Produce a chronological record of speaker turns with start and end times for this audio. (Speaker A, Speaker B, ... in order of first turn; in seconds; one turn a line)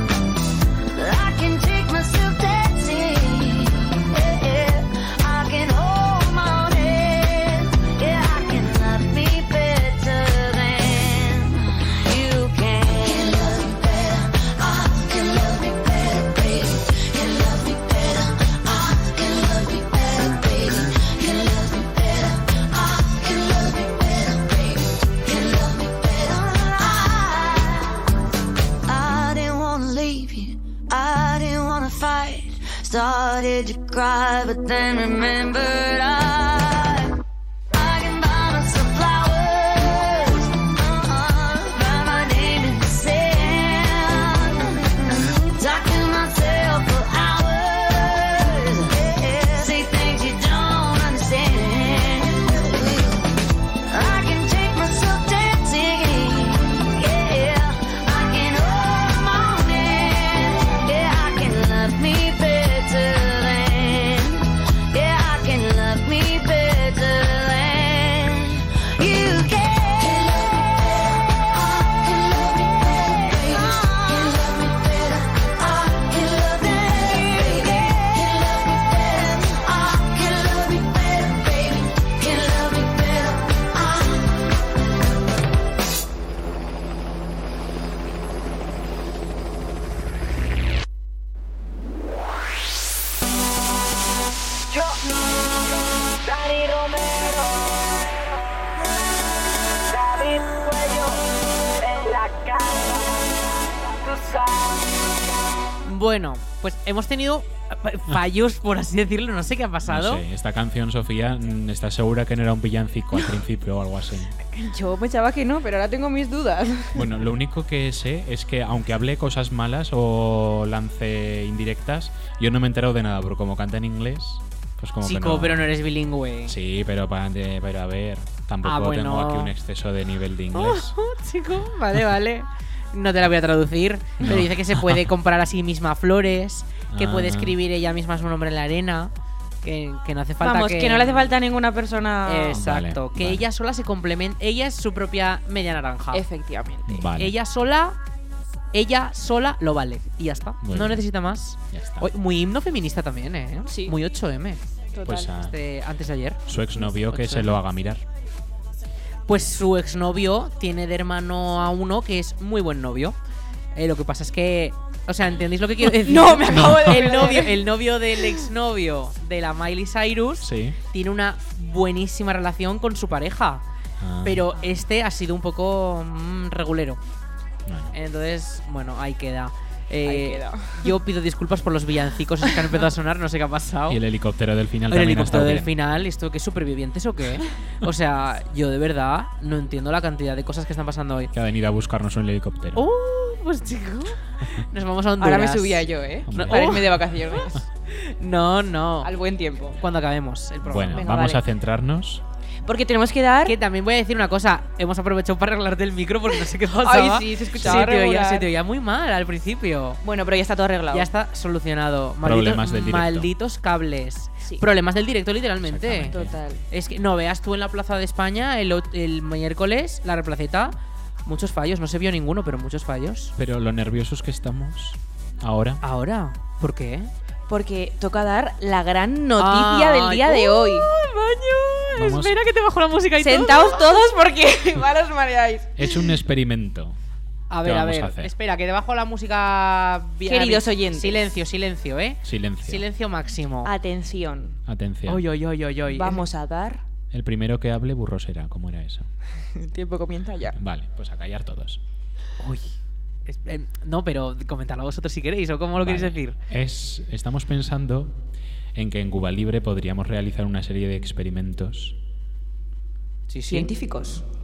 Speaker A: 0.9-28.0
Speaker A: 28.9-37.1
Speaker A: 37.7-53.3
Speaker A: 53.9-84.4
Speaker B: 94.7-95.5
Speaker B: 96.2-97.5
Speaker B: 99.9-101.2
Speaker B: 101.8-103.2
Speaker B: 103.9-105.0
Speaker C: 105.8-110.2
Speaker D: 109.9-114.3
Speaker E: 114.5-117.1
Speaker D: 116.9-125.7
Speaker C: 125.0-126.5
Speaker D: 126.5-130.9
Speaker C: 128.6-129.5
Speaker C: 130.5-139.1
Speaker D: 134.2-135.1
Speaker D: 136.9-137.6
Speaker C: 139.6-141.3
Speaker E: 140.4-142.6
Speaker C: 142.2-146.2
Speaker D: 142.5-143.4
Speaker E: 146.1-147.1
Speaker D: 146.9-147.3
Speaker C: 147.1-148.0
Speaker C: 148.7-154.6
Speaker D: 150.6-151.1
Speaker D: 151.7-152.1
Speaker E: 153.7-153.9
Speaker E: 154.9-155.3
Speaker D: 155.0-155.5
Speaker C: 155.4-157.6
Speaker D: 156.5-158.0
Speaker C: 159.3-163.2
Speaker C: 163.7-173.6
Speaker E: 166.0-168.4
Speaker D: 166.5-167.0
Speaker D: 170.4-170.8
Speaker D: 174.0-174.5
Speaker C: 174.2-177.0
Speaker D: 177.7-177.9
Speaker C: 177.9-184.0
Speaker E: 180.0-180.9
Speaker D: 183.9-185.7
Speaker C: 184.9-191.3
Speaker D: 191.3-192.9
Speaker C: 192.7-196.9
Speaker E: 195.2-197.7
Speaker D: 196.3-196.8
Speaker C: 197.9-199.1
Speaker E: 199.0-199.8
Speaker C: 199.8-201.4
Speaker D: 200.6-202.2
Speaker E: 201.0-201.4
Speaker E: 202.6-203.6
Speaker C: 203.4-210.0
Speaker E: 206.8-208.5
Speaker D: 207.6-207.9
Speaker E: 210.0-211.1
Speaker C: 210.9-216.1
Speaker D: 212.2-213.3
Speaker D: 215.6-216.4
Speaker E: 216.1-216.6
Speaker C: 216.7-220.7
Speaker C: 221.2-223.3
Speaker D: 223.4-225.8
Speaker C: 225.8-227.1
Speaker E: 227.5-230.9
Speaker C: 229.4-233.9
Speaker D: 231.9-232.4
Speaker E: 233.2-235.9
Speaker D: 235.8-237.0
Speaker C: 237.5-243.7
Speaker D: 237.6-238.3
Speaker E: 240.2-241.2
Speaker D: 242.2-242.9
Speaker E: 243.6-244.6
Speaker D: 244.7-245.2
Speaker C: 245.1-246.2
Speaker E: 245.9-246.8
Speaker D: 247.1-249.1
Speaker E: 249.4-250.6
Speaker D: 250.5-251.8
Speaker C: 252.4-252.7
Speaker C: 253.3-256.4
Speaker D: 255.8-258.2
Speaker D: 258.7-262.0
Speaker C: 263.3-263.7
Speaker E: 263.5-264.2